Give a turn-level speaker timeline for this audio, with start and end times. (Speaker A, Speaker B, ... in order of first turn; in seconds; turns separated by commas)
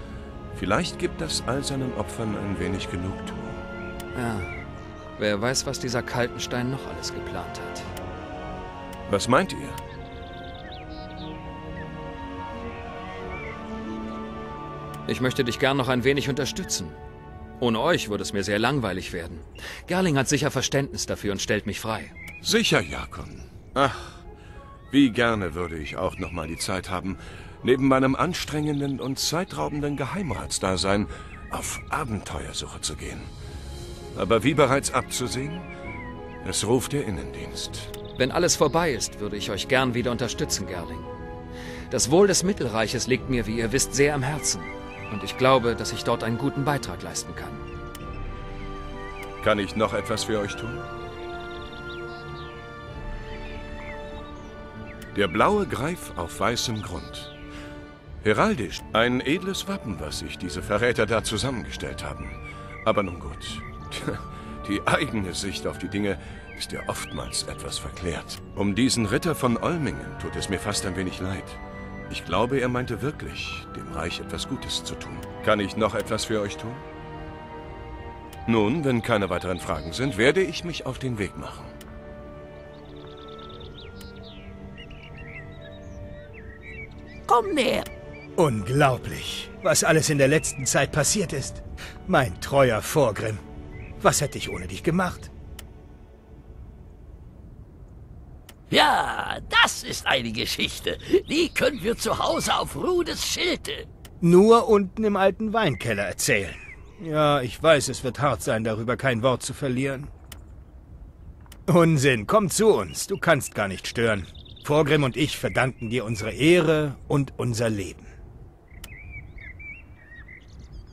Speaker A: 0.5-3.6, Speaker B: 4.1-4.5, Speaker B: 5.2-7.9, Speaker A: 9.1-9.8, Speaker B: 15.1-17.0, Speaker B: 17.6-22.1, Speaker A: 22.4-24.2, Speaker A: 24.9-33.3, Speaker A: 34.1-35.7, Speaker A: 36.4-37.9, Speaker B: 38.2-41.1, Speaker B: 41.9-47.6, Speaker A: 49.4-50.9, Speaker A: 55.1-57.3, Speaker A: 58.2-76.8, Speaker A: 78.5-81.7, Speaker C: 87.3-87.9, Speaker D: 88.4-93.4, Speaker D: 94.0-95.3, Speaker C: 98.7-103.9, Speaker D: 104.2-110.1, Speaker D: 111.7-118.1